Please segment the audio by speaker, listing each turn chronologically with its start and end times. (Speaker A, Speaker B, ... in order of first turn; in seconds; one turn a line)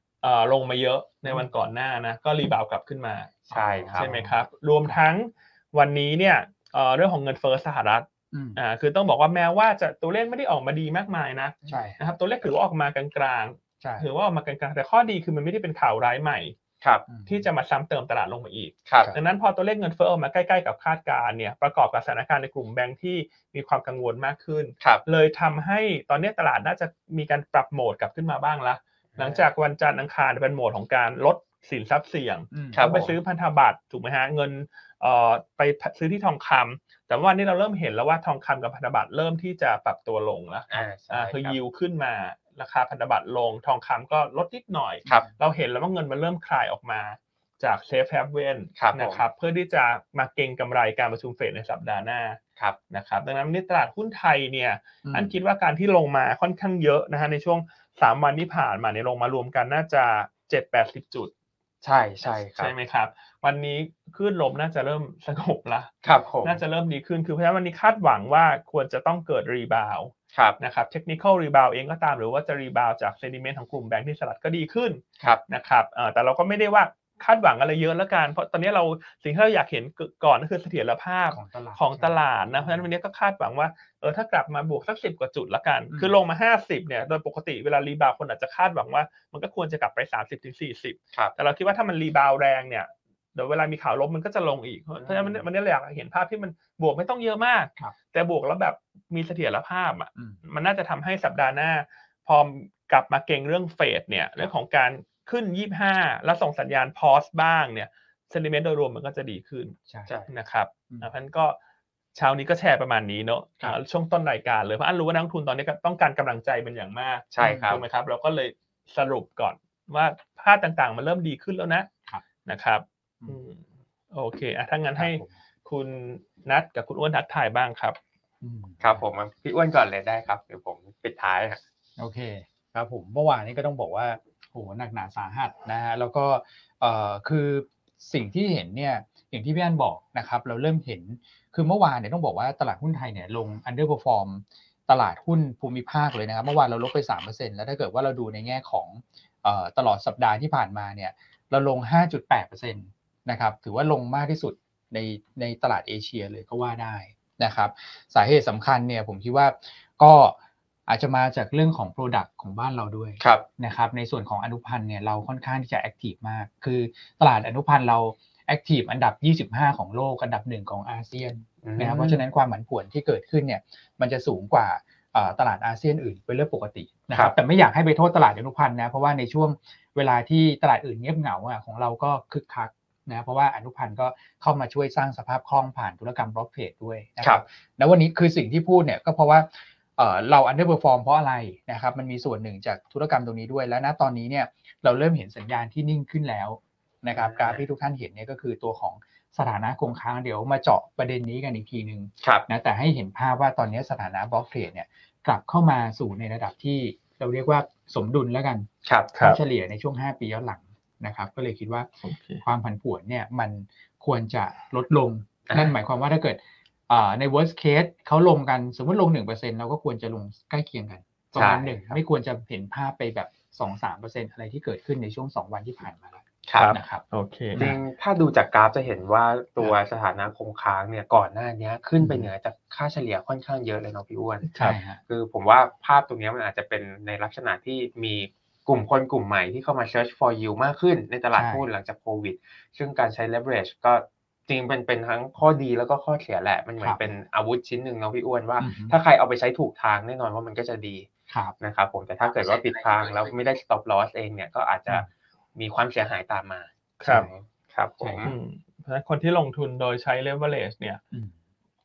Speaker A: 0.2-16.6
Speaker B: 1.2-1.5
Speaker B: 3.5-5.0
Speaker C: 3.5-4.1
Speaker B: 8.3-8.6
Speaker B: 11.6-12.0
Speaker B: 13.8-14.1
Speaker C: 16.8-17.1
Speaker B: 17.1-17.4
Speaker A: 17.2-52.4
Speaker C: 18.9-19.1
Speaker C: 29.1-29.4
Speaker B: 32.5-32.8
Speaker C: 32.7-33.1
Speaker C: 40.7-41.6
Speaker C: 48.8-49.2
Speaker A: 52.9-61.3
Speaker B: 55.0-55.3
Speaker C: 61.8-62.7
Speaker A: 62.3-109.8
Speaker C: 66.0-66.6
Speaker C: 70.3-70.6
Speaker B: 81.3-82.9
Speaker B: 85.9-86.2
Speaker B: 95.0-95.4
Speaker B: 100.2-100.4
Speaker A: 110.3-111.6
Speaker A: 112.1-121.9
Speaker C: 117.3-117.8
Speaker B: 117.4-117.8
Speaker A: 122.4-128.0
Speaker B: 125.0-125.3
Speaker B: 128.4-129.1
Speaker C: 128.8-131.6
Speaker B: 132.0-208.7
Speaker C: 171.6-172.2
Speaker C: 197.1-197.6
Speaker C: 202.2-202.5
Speaker C: 208.8-209.1
Speaker A: 209.1-209.4
Speaker B: 209.2-211.9
Speaker A: 212.0-212.4
Speaker B: 212.4-227.0
Speaker C: 215.5-215.7
Speaker C: 221.3-222.0
Speaker C: 226.5-226.7
Speaker A: 226.5-227.6
Speaker B: 227.5-227.8
Speaker C: 227.6-234.5
Speaker B: 232.0-232.3
Speaker A: 234.5-234.8
Speaker B: 234.6-235.0
Speaker C: 235.1-258.4
Speaker B: 241.3-241.7
Speaker B: 248.6-249.0
Speaker B: 251.3-251.5
Speaker A: 257.0-257.3
Speaker B: 258.0-258.3
Speaker A: 258.2-261.0